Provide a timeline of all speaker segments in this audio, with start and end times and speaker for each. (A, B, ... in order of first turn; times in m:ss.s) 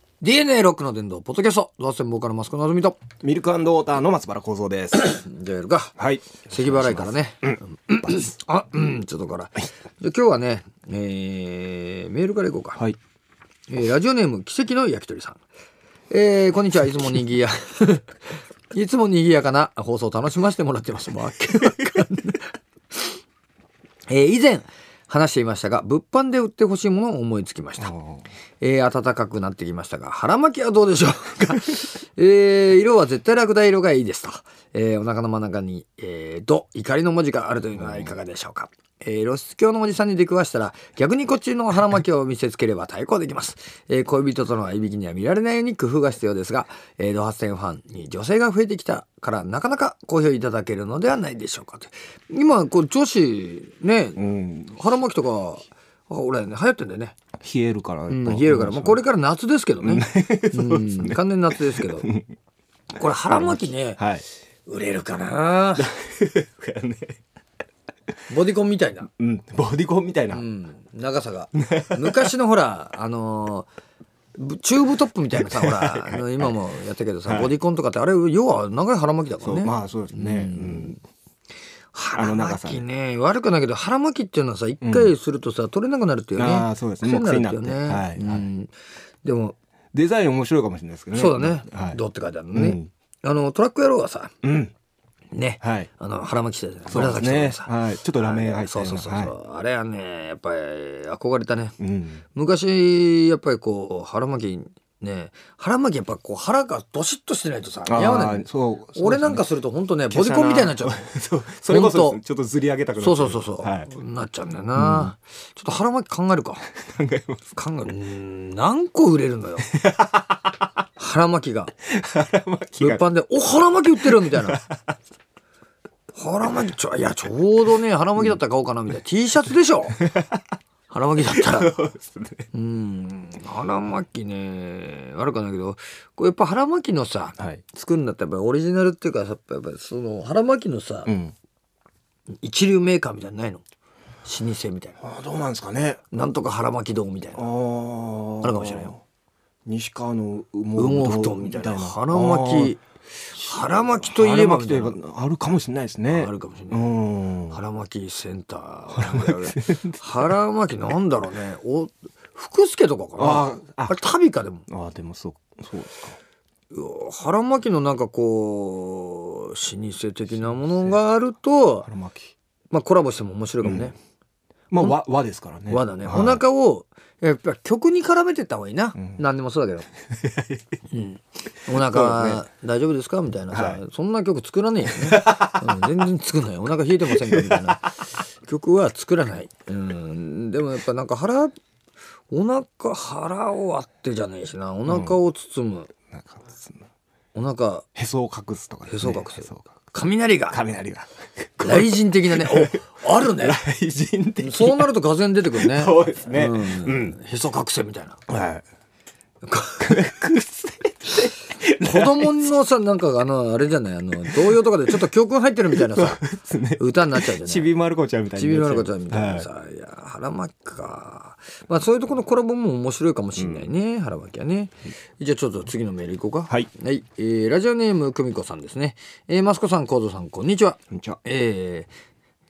0:00.2-0:03.0 A
0:03.2-0:05.2 B
0:05.0-0:06.0 A
0:06.0-0:08.2 B
0:06.5-0:12.8 A
0:13.7-0:15.4 A
0:16.1-0:18.1 A
0:18.7-0:23.1 A
0:24.1-0:27.9 A
0:27.8-0:28.3 B
0:28.6-0:57.2 A
0:37.8-0:38.2 B
0:54.2-0:54.9 B
0:57.4-0:59.0 B
0:58.1-1:02.1 A
0:59.8-1:02.3 B
1:02.9-1:04.0 A
1:03.3-1:04.2 B
1:04.7-1:05.9 A
1:05.8-1:07.2 B
1:08.3-1:09.1 A
1:09.2-1:10.5 B
1:10.3-1:13.7 A
1:11.5-1:12.3 B
1:14.4-1:21.0 A
1:15.3-1:16.6 B
1:17.3-1:17.6 B
1:19.4-1:21.0 B
1:21.9-1:29.6 A
1:22.2-1:22.8 B
1:24.8-1:25.1 B
1:26.4-1:28.5 B
1:29.9-1:32.0 B
1:31.1-1:34.3 A
1:32.5-1:32.9 B
1:34.4-1:34.7 B
1:35.3-1:41.8 A
1:35.6-1:35.9 B
1:36.9-1:39.4 B
1:41.8-1:42.2 B
1:42.3-1:51.0 A
1:47.9-1:49.4 B
1:50.1-1:53.9 B
1:51.7-1:52.2 A
1:53.0-1:56.7 A
1:54.8-1:55.1 B
1:56.8-1:57.4 B
1:57.5-1:59.7 A
1:59.7-2:00.5 B
2:01.0-2:01.7 A
2:01.9-2:03.1 B
2:02.8-2:04.6 A
2:04.0-2:04.8 B
2:06.1-2:10.0 A
2:10.0-2:10.4 B
2:10.9-2:11.8 A
2:11.2-2:12.5 B
2:12.5-2:21.1 A
2:17.4-2:17.6 B
2:21.1-2:21.4 B
2:22.3-2:23.6 A
2:24.2-2:25.0 A
2:25.0-2:26.0 B
2:26.1-2:27.5 A
2:27.4-2:29.0 B
2:28.4-2:29.0 A
2:29.7-2:32.8 B
2:30.8-2:35.0 A
2:33.6-2:37.6 B
2:36.1-2:36.9 A
2:37.5-2:44.7 A
2:38.9-2:40.4 B
2:43.2-2:44.0 B
2:44.7-2:46.2 B
2:46.7-2:51.9 A
2:50.3-2:51.0 B
2:51.9-2:52.3 B
2:52.7-2:54.0 A
2:53.6-2:53.9 B
2:54.7-2:56.4 B
2:55.7-2:59.9 A
3:00.2-3:00.6 B
3:00.9-3:11.5 A
3:01.7-3:02.4 B
3:03.5-3:03.8 B
3:04.9-3:05.9 B
3:07.1-3:07.8 B
3:12.3-3:15.9 A
3:14.9-3:15.2 B
3:16.1-3:16.9 B
3:17.3-3:17.9 A
3:18.0-3:19.7 B
3:18.9-3:20.6 A
3:20.5-3:24.9 B
3:21.6-3:23.6 A
3:24.4-3:28.2 A
3:25.4-3:27.2 B
3:28.3-3:28.6 B
3:29.4-3:30.1 A
3:29.8-3:32.5 B
3:31.8-3:36.2 A
3:34.2-3:35.0 B
3:35.7-3:39.5 B
3:36.8-3:37.7 A
3:38.4-3:51.9 A
3:43.4-3:43.7 B
3:50.9-3:51.2 B